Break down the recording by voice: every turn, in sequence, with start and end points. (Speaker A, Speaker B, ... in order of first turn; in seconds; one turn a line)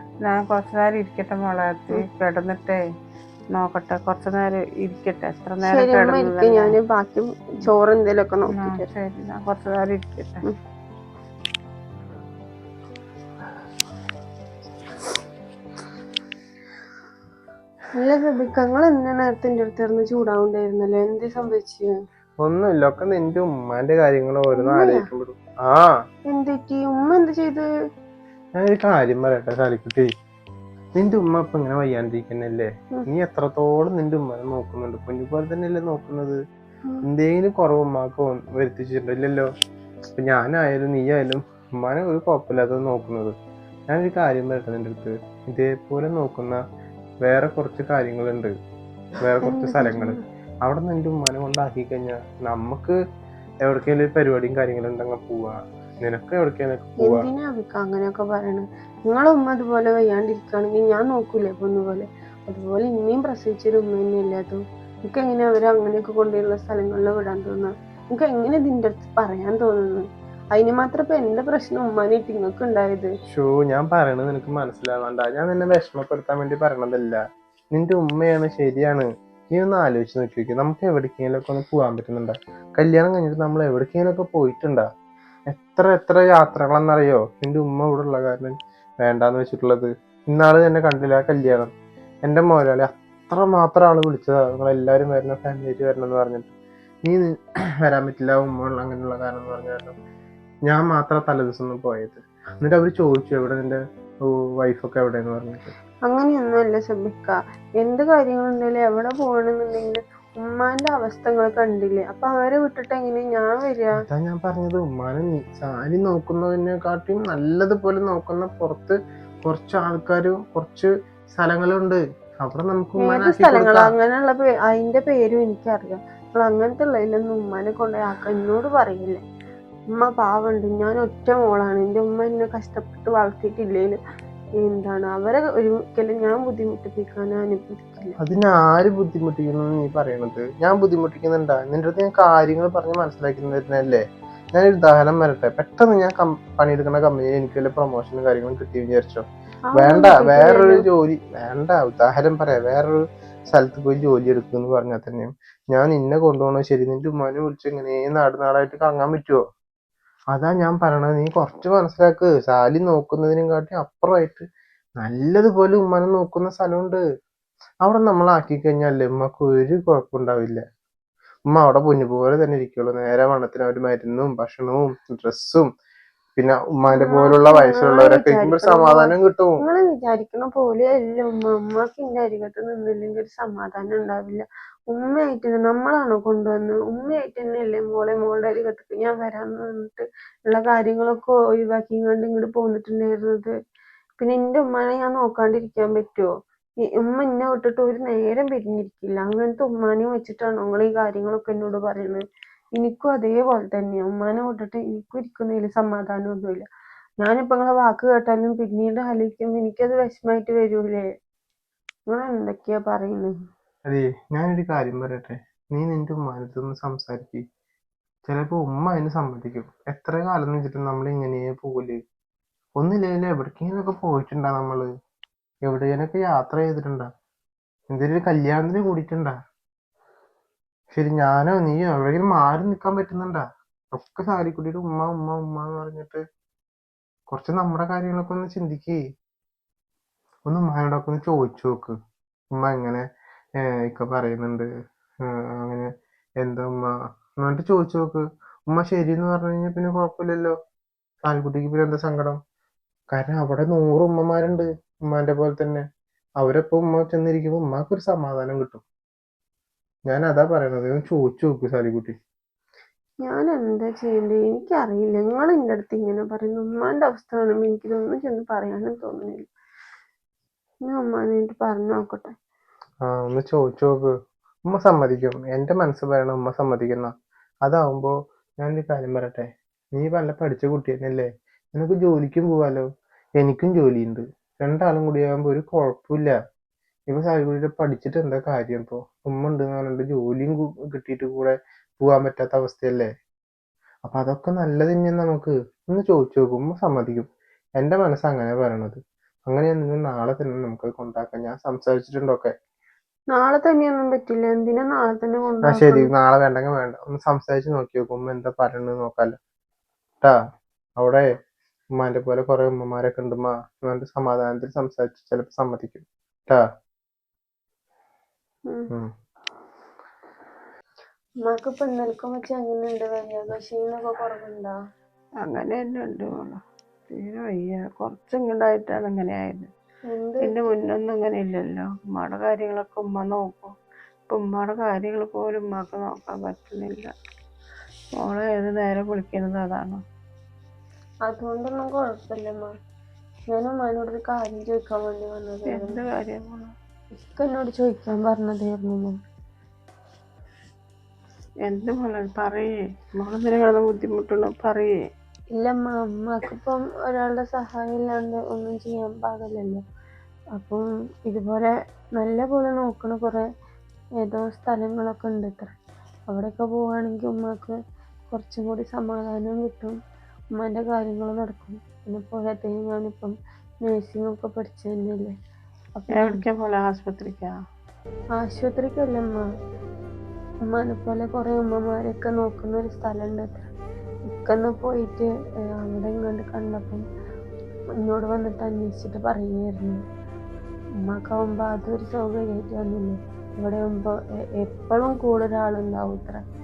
Speaker A: 0.2-2.8
Speaker A: 3.5-6.8
Speaker B: 5.6-8.9
Speaker A: 8.6-10.4
Speaker B: 18.0-21.9
Speaker C: 22.4-25.9
Speaker B: 24.6-25.1
Speaker B: 26.3-27.7
Speaker C: 28.6-30.1
Speaker C: 30.9-36.4
Speaker C: 37.0-39.5
Speaker C: 40.2-43.3
Speaker C: 43.9-46.6
Speaker C: 47.2-48.5
Speaker C: 49.2-53.0
Speaker B: 49.4-50.2
Speaker C: 53.6-57.3
Speaker B: 57.0-73.1
Speaker C: 73.3-77.2
Speaker C: 77.7-84.9
Speaker C: 85.5-91.7
Speaker C: 92.2-96.5
Speaker C: 97.1-100.0
Speaker C: 100.7-105.7
Speaker B: 106.1-114.0
Speaker C: 114.1-123.9
Speaker B: 123.0-129.2
Speaker B: 130.0-134.0
Speaker B: 134.6-138.2
Speaker C: 138.2-144.0
Speaker C: 144.5-149.2
Speaker B: 149.7-150.9
Speaker C: 149.8-159.4
Speaker C: 160.3-164.5
Speaker C: 165.0-167.0
Speaker C: 167.8-170.6
Speaker C: 171.5-175.7
Speaker C: 176.4-179.6
Speaker B: 176.9-193.5
Speaker B: 194.2-196.3
Speaker B: 196.9-202.2
Speaker B: 202.8-206.7
Speaker B: 207.2-211.1
Speaker B: 212.1-213.3
Speaker C: 213.9-217.4
Speaker C: 218.3-222.0
Speaker C: 222.8-224.9
Speaker C: 225.7-227.1
Speaker C: 227.9-229.3
Speaker C: 230.9-233.4
Speaker C: 233.9-236.2
Speaker C: 237.3-239.0
Speaker C: 240.5-242.0
Speaker C: 242.5-243.1
Speaker C: 243.6-244.7
Speaker C: 245.2-250.6
Speaker C: 251.2-252.4
Speaker C: 253.1-255.8
Speaker C: 256.4-258.8
Speaker C: 260.1-262.1
Speaker B: 263.2-269.5
Speaker B: 270.9-272.3
Speaker C: 273.1-274.1
Speaker C: 274.7-277.1
Speaker C: 277.6-282.9
Speaker C: 283.4-286.4
Speaker C: 287.1-293.1
Speaker C: 294.1-297.3
Speaker C: 297.8-302.5
Speaker B: 303.3-306.1
Speaker C: 305.7-309.4
Speaker C: 311.0-311.3
Speaker C: 312.0-316.6
Speaker B: 321.5-324.8
Speaker A: 325.4-329.7
Speaker B: 330.1-330.7
Speaker A: 330.4-333.7
Speaker A: 334.3-337.1
Speaker A: 338.2-340.0
Speaker B: 341.3-342.7
Speaker B: 343.5-346.0
Speaker A: 345.7-346.7
Speaker B: 347.1-349.1
Speaker A: 351.6-354.9
Speaker B: 355.6-359.8
Speaker B: 360.6-363.4
Speaker B: 364.2-365.7
Speaker B: 366.3-367.8
Speaker B: 368.3-370.0
Speaker B: 370.6-375.3
Speaker B: 375.9-376.4
Speaker A: 376.1-377.6
Speaker B: 378.4-379.5
Speaker B: 380.7-383.7
Speaker B: 384.3-387.0
Speaker B: 388.0-390.0
Speaker B: 391.1-396.4